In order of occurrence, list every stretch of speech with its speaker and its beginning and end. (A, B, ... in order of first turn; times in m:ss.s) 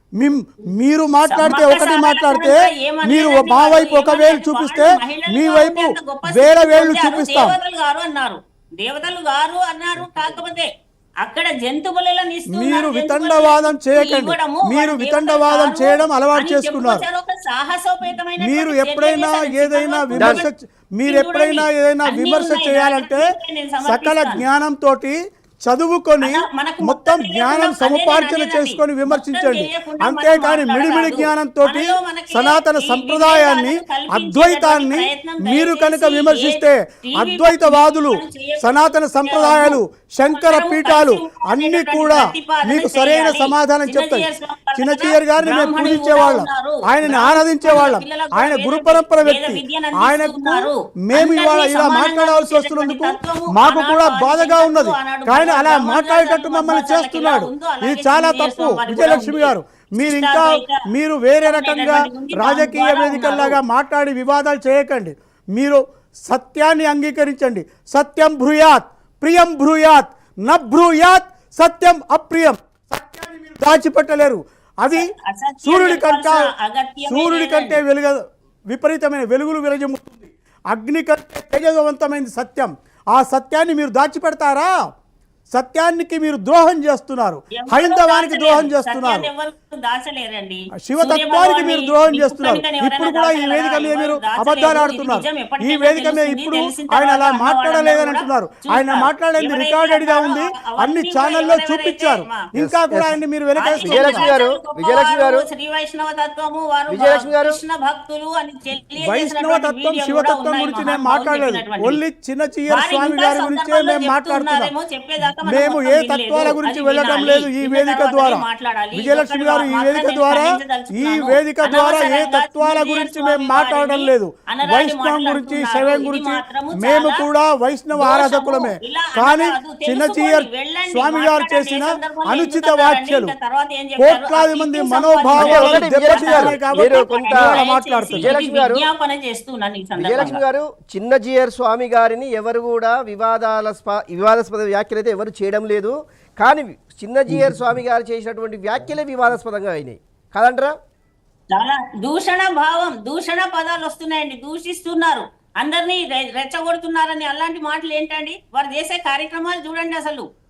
0:00.2-0:07.6 A
0:01.3-0:10.7 B
0:11.2-0:20.5 B
0:12.5-0:17.0 A
0:18.4-0:23.3 A
0:20.2-0:20.4 C
0:21.0-0:24.4 B
0:23.8-1:15.1 A
0:26.2-1:00.8 B
1:01.4-1:03.6 B
1:14.9-1:17.8 B
1:15.6-1:16.5 A
1:17.1-1:24.7 A
1:25.5-1:29.3 A
1:27.6-1:42.4 B
1:30.8-1:44.3 A
1:42.6-1:43.2 C
1:43.6-1:52.0 B
1:43.8-1:45.5 C
1:46.9-1:47.6 C
1:49.0-1:54.7 A
1:52.7-2:07.2 B
1:55.4-1:58.4 A
1:59.0-2:13.3 A
2:08.0-2:20.4 B
2:14.0-2:18.4 A
2:15.4-2:17.4 C
2:18.2-2:18.8 C
2:20.0-2:30.7 C
2:31.5-2:40.2 B